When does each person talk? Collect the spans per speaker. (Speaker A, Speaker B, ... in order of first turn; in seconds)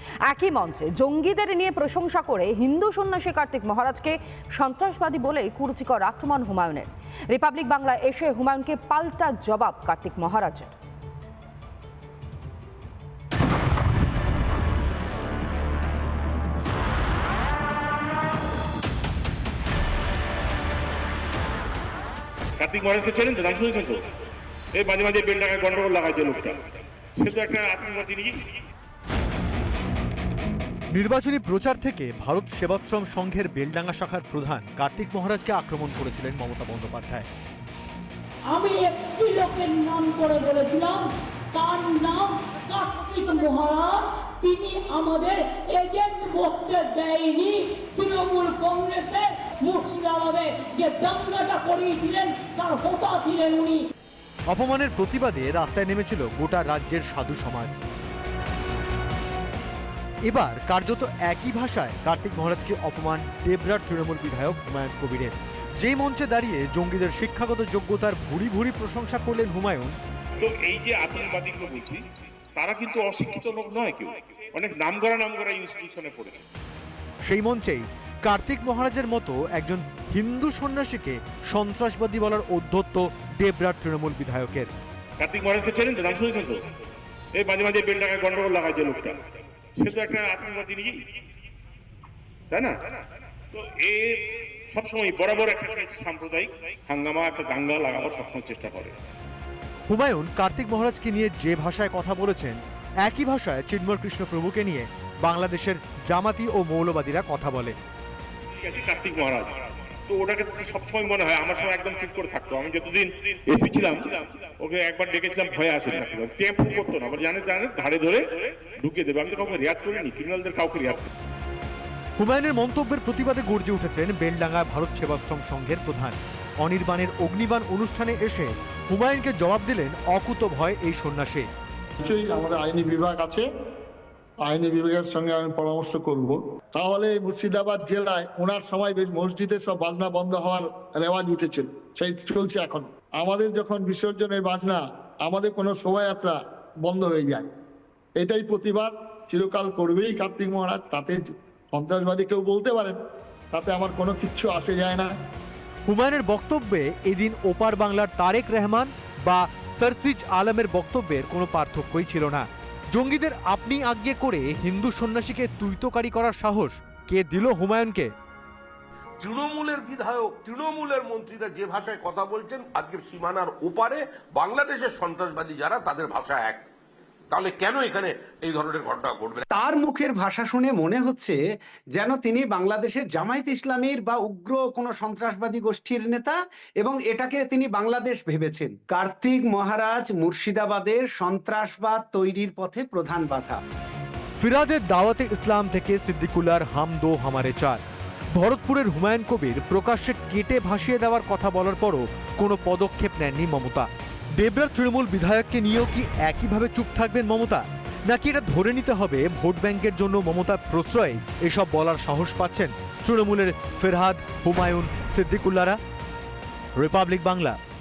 Speaker A: 0.3-10.7
Speaker B: 22.6-24.0, 24.8-26.6, 27.2-28.4, 70.4-72.0, 72.5-76.4, 85.2-86.6, 87.3-89.2, 89.8-91.0, 92.5-92.8, 93.5-99.0, 108.6-109.6, 110.1-121.1
Speaker C: 30.9-37.3, 54.5-57.9, 60.3-70.0, 77.2-84.7, 99.9-107.8, 122.2-131.5, 155.9-168.1, 194.4-197.8, 198.3-215.8, 216.8-217.6
Speaker D: 38.5-53.8
Speaker E: 132.0-133.5, 134.4-147.5, 148.2-153.0, 153.5-155.1
Speaker F: 169.2-176.7, 177.3-179.4
Speaker G: 179.5-181.4, 181.9-193.6